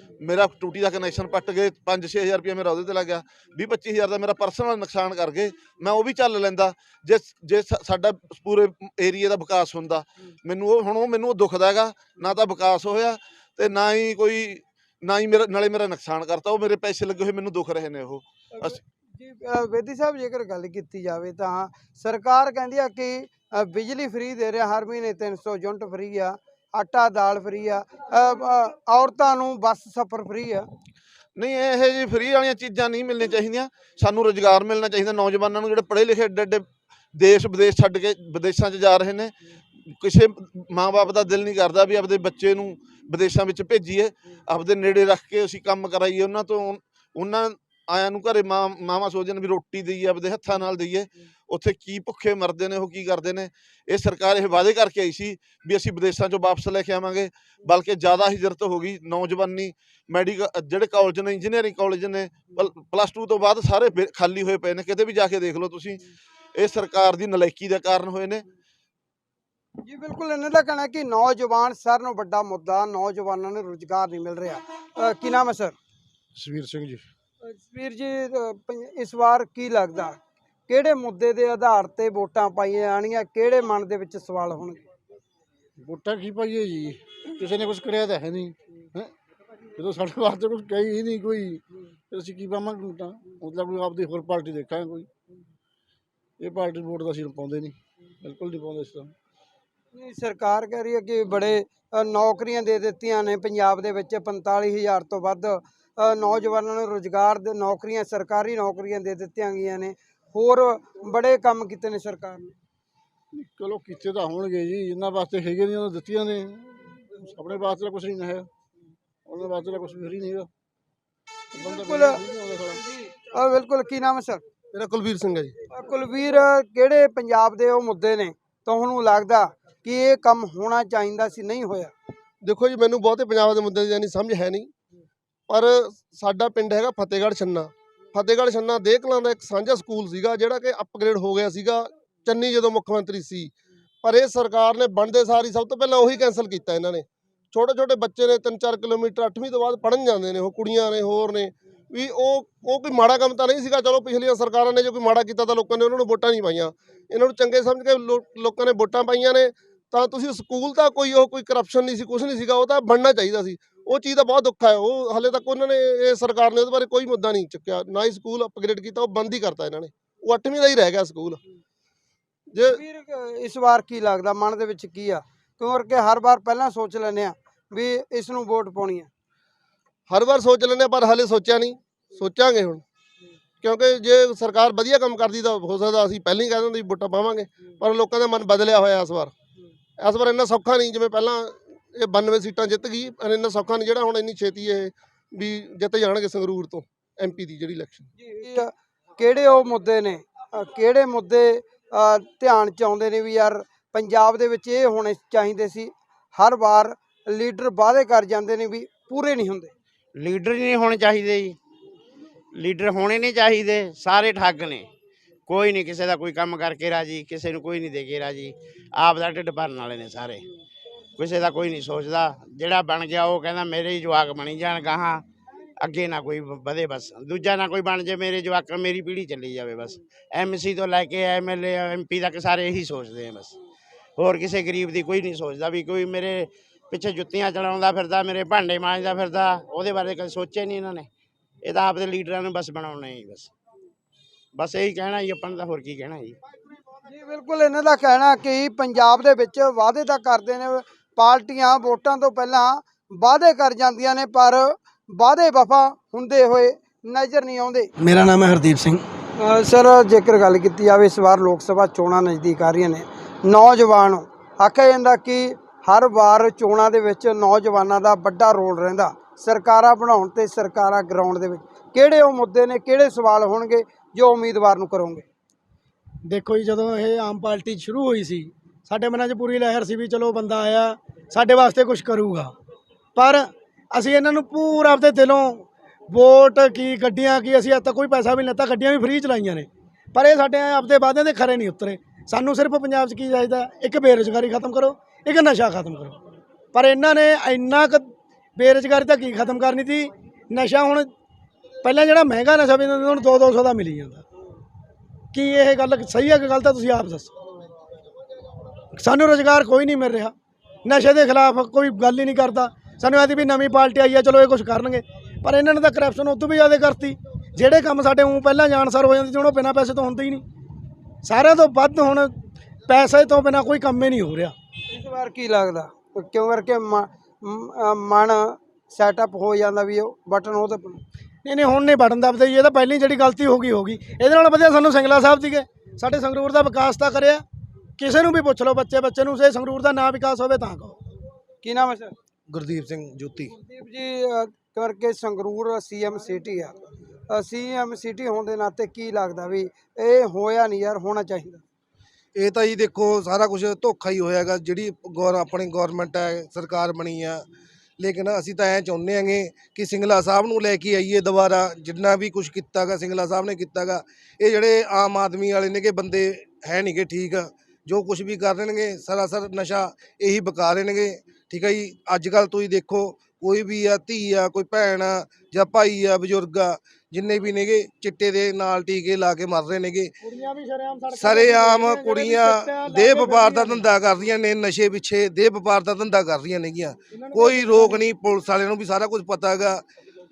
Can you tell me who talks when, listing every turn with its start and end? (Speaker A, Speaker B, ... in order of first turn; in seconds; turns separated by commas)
Speaker A: 0.2-18.8, Speaker B: 18.6-30.7, Speaker A: 31.4-39.3, Speaker A: 40.0-66.0, Speaker A: 66.5-68.4, Speaker B: 69.8-75.8, Speaker C: 76.3-77.0, Speaker B: 77.4-80.2, Speaker B: 80.7-84.8, Speaker C: 85.8-89.1, Speaker C: 89.8-95.1, Speaker C: 96.4-99.1, Speaker B: 99.9-112.5, Speaker C: 113.3-118.5, Speaker C: 119.2-120.5, Speaker C: 121.5-122.8, Speaker B: 121.5-124.4, Speaker D: 124.7-125.5, Speaker B: 125.7-131.9, Speaker D: 132.4-134.7, Speaker D: 135.5-143.5, Speaker D: 144.0-171.4, Speaker D: 172.5-172.8, Speaker B: 172.7-179.1, Speaker D: 180.1-182.8, Speaker D: 183.6-189.3, Speaker D: 190.0-198.1, Speaker B: 198.2-209.7, Speaker E: 210.2-211.6, Speaker E: 212.6-214.9, Speaker E: 215.5-220.4, Speaker E: 221.2-225.2, Speaker E: 225.8-233.5, Speaker E: 234.2-241.1, Speaker E: 241.6-243.5, Speaker E: 244.6-246.3, Speaker B: 247.1-257.9, Speaker F: 258.0-259.0, Speaker B: 259.4-275.2, Speaker F: 276.2-282.5, Speaker F: 283.1-296.2, Speaker F: 296.7-301.1, Speaker F: 301.8-304.2, Speaker F: 305.3-307.3, Speaker F: 308.9-310.3, Speaker F: 310.8-320.4, Speaker F: 321.2-322.3, Speaker F: 322.9-324.5, Speaker B: 324.9-331.0, Speaker F: 331.4-337.4, Speaker F: 338.0-341.0, Speaker B: 341.6-342.1, Speaker G: 342.5-343.5, Speaker B: 343.6-346.7, Speaker B: 347.3-351.6, Speaker G: 352.3-357.4, Speaker G: 358.0-380.1, Speaker F: 380.2-383.8, Speaker G: 381.1-389.8, Speaker F: 387.1-388.1